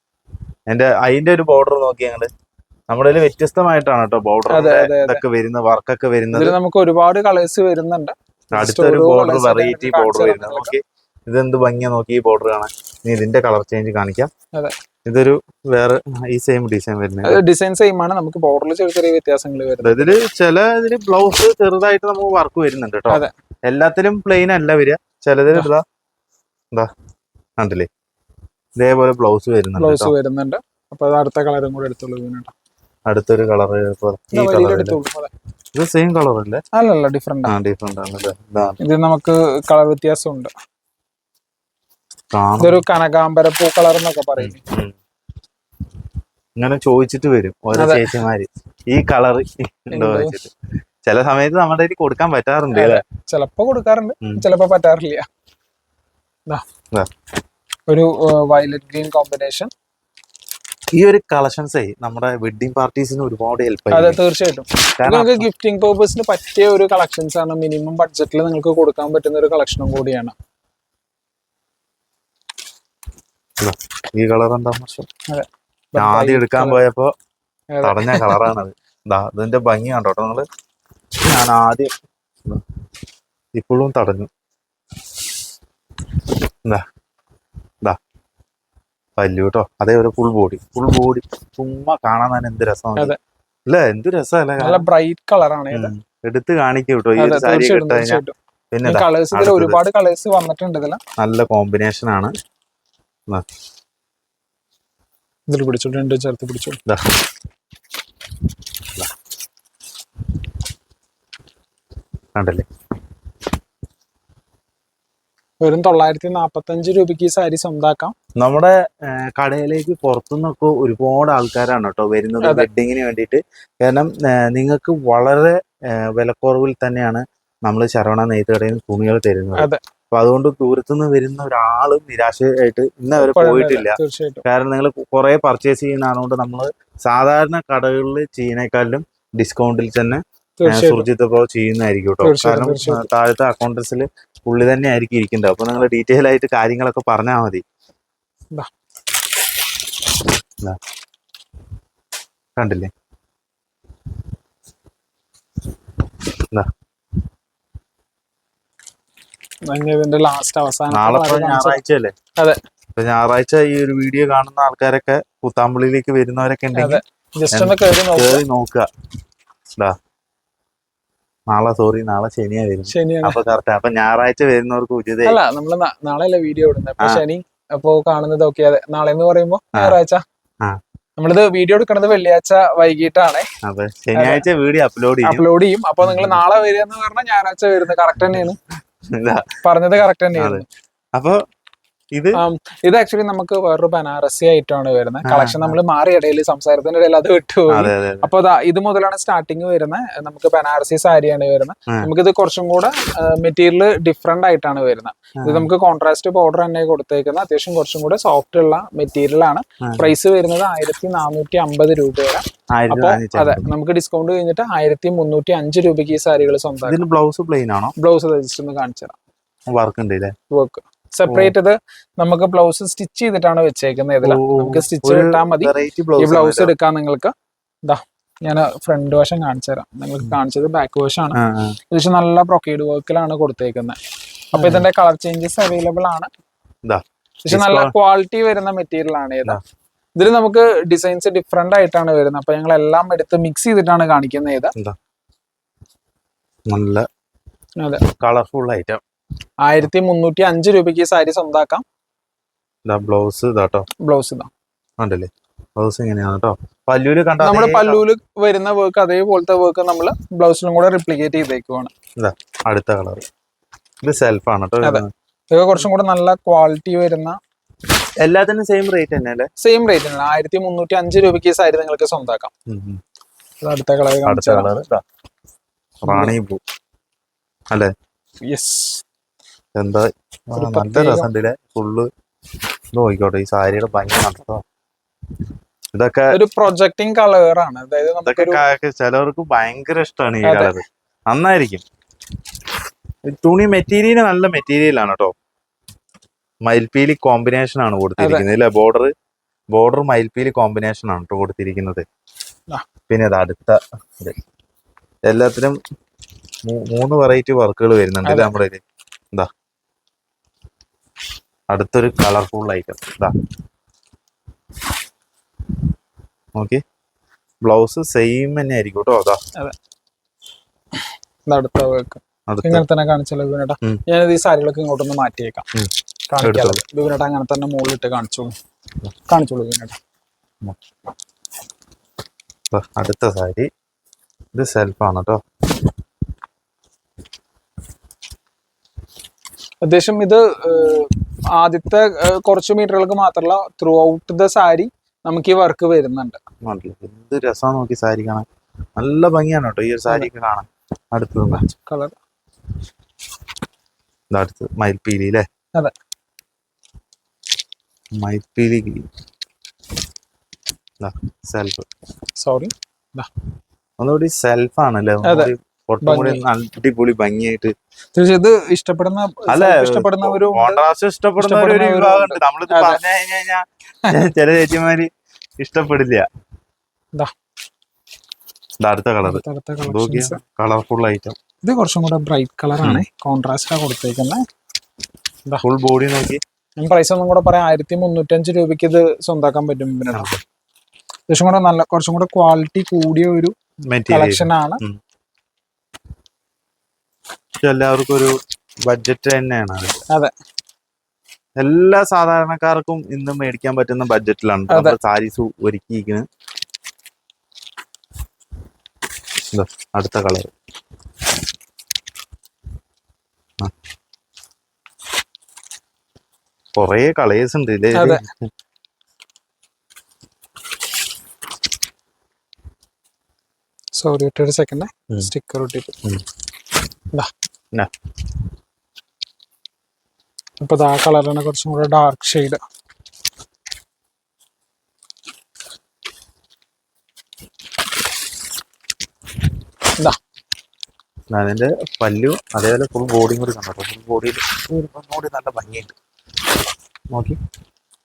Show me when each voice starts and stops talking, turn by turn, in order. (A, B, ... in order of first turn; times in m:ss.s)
0:00.7-0:02.3 A
0:02.9-0:06.6 A
0:04.5-0:05.2 B
0:06.3-0:10.7 B
0:08.5-0:14.3 A
0:15.0-0:17.4 A
0:17.2-0:20.2 B
0:19.8-0:25.8 A
0:27.6-0:27.9 A
0:28.8-0:30.1 A
0:29.8-0:32.5 B
0:33.1-0:35.0 A
0:34.3-0:35.3 B
0:35.8-0:36.6 A
0:36.7-0:37.5 B
0:37.5-0:38.8 A
0:38.8-0:40.5 B
0:42.3-0:42.8 A
0:42.6-0:44.6 B
0:44.4-0:45.0 A
0:46.6-0:50.5 A
0:47.7-0:48.2 B
0:49.9-0:50.4 B
0:51.0-0:53.0 A
0:52.7-0:55.3 B
0:57.9-0:59.7 B
1:01.0-1:04.2 A
1:03.9-1:10.3 B
1:05.0-1:05.5 A
1:13.6-1:15.1 A
1:15.3-1:16.8 B
1:16.0-1:17.1 A
1:17.7-1:18.5 B
1:17.8-1:20.5 A
1:21.2-1:21.9 A
1:23.6-1:24.3 A
1:29.2-1:33.1 A
1:33.7-1:34.9 A
1:34.6-1:35.9 B
1:35.7-1:39.8 A
1:37.2-1:38.4 B
1:38.9-1:41.0 B
1:41.2-1:42.3 A
1:45.5-1:46.8 B
1:46.9-1:47.1 A
1:52.4-1:52.6 A
1:55.6-1:58.1 B
1:58.4-2:27.6 A
2:02.4-2:02.7 B
2:09.6-2:09.8 B
2:13.2-2:14.4 B
2:20.6-2:21.1 B
2:22.2-2:23.1 B
2:32.6-2:32.9 A
2:39.7-2:41.8 B
2:40.9-2:42.1 A
2:43.0-2:47.0 A
2:46.8-2:48.4 B
2:47.5-2:48.9 A
2:51.5-2:55.4 A
2:52.9-2:53.4 B
2:55.2-3:00.2 B
3:01.2-3:03.5 B
3:03.6-3:05.4 A
3:04.1-3:04.5 B
3:05.2-3:08.6 B
3:06.0-3:06.4 A
3:09.1-3:09.6 A
3:09.6-3:10.6 B
3:10.4-3:10.6 A
3:11.2-3:11.4 A
3:12.1-3:12.4 A
3:12.4-3:37.0 B
3:15.2-3:15.8 A
3:17.7-3:18.3 A
3:25.4-3:25.7 A
3:29.8-3:30.1 A
3:32.7-3:33.7 A
3:36.8-3:37.9 A
3:38.0-3:39.2 B
3:39.7-3:40.3 A
3:40.5-3:51.4 B
3:41.3-3:41.5 A
3:44.2-3:46.7 A
3:51.3-3:51.8 A
3:51.9-3:54.0 B
3:54.5-3:56.3 B
3:54.5-3:54.8 A
3:56.9-3:57.9 A
3:57.4-3:59.6 B
4:00.2-4:04.7 B
4:06.7-4:07.1 A
4:08.2-4:09.0 A
4:09.6-4:11.8 B
4:12.9-4:13.9 A
4:14.0-4:14.5 B
4:15.0-4:18.0 A
4:17.4-4:21.9 B
4:22.2-4:23.2 A
4:24.0-4:25.1 A
4:24.8-4:27.4 B
4:28.2-4:29.5 A
4:29.6-4:32.5 B
4:32.7-4:33.0 A
4:33.6-4:34.7 B
4:34.2-4:35.0 A
4:36.0-4:36.6 A
4:36.0-4:36.4 B
4:38.4-4:39.0 B
4:39.8-4:42.1 A
4:40.5-4:41.3 B
4:42.9-4:44.6 A
4:45.9-4:46.4 A
4:46.3-4:48.6 B
4:48.2-4:51.8 A
4:50.4-4:50.7 B
4:53.3-4:55.3 A
4:56.7-4:59.1 A
4:58.2-4:58.5 B
4:59.7-5:02.0 A
5:03.1-5:04.4 A
5:05.3-5:05.8 A
5:06.7-5:08.8 A
5:08.2-5:08.6 B
5:11.7-5:13.3 A
5:16.6-5:16.8 A
5:17.6-5:19.4 A
5:21.5-5:25.7 B
5:22.5-5:22.8 A
5:25.8-5:26.8 A
5:26.3-5:28.6 B
5:29.3-5:30.0 B
5:32.7-5:33.7 A
5:34.5-5:35.4 A
5:39.8-5:46.4 B
5:46.6-5:48.5 A
5:49.0-5:51.6 A
5:51.5-5:52.2 B
5:54.3-5:55.5 A
5:58.1-5:59.0 A
6:01.0-6:01.9 A
6:02.4-6:03.3 B
6:04.0-6:07.7 A
6:05.2-6:05.5 B
6:06.0-6:06.4 B
6:08.2-6:10.8 B
6:09.5-6:15.1 A
6:11.4-6:13.0 B
6:15.6-6:16.2 A
6:18.8-6:21.4 A
6:19.2-6:20.4 B
6:21.6-6:24.4 B
6:25.6-6:26.4 A
6:26.8-6:30.3 B
6:30.1-6:30.4 A
6:31.3-6:33.5 B
6:33.9-6:35.0 A
6:34.1-6:34.8 B
6:37.6-6:38.3 A
6:38.9-6:40.0 A
6:41.6-6:46.2 A
6:44.7-6:45.0 B
6:49.5-6:50.5 A
6:56.8-6:58.5 A
6:58.0-6:58.2 B
7:04.0-7:06.0 B
7:10.6-7:12.6 B
7:21.3-7:26.0 A
7:27.1-7:27.4 A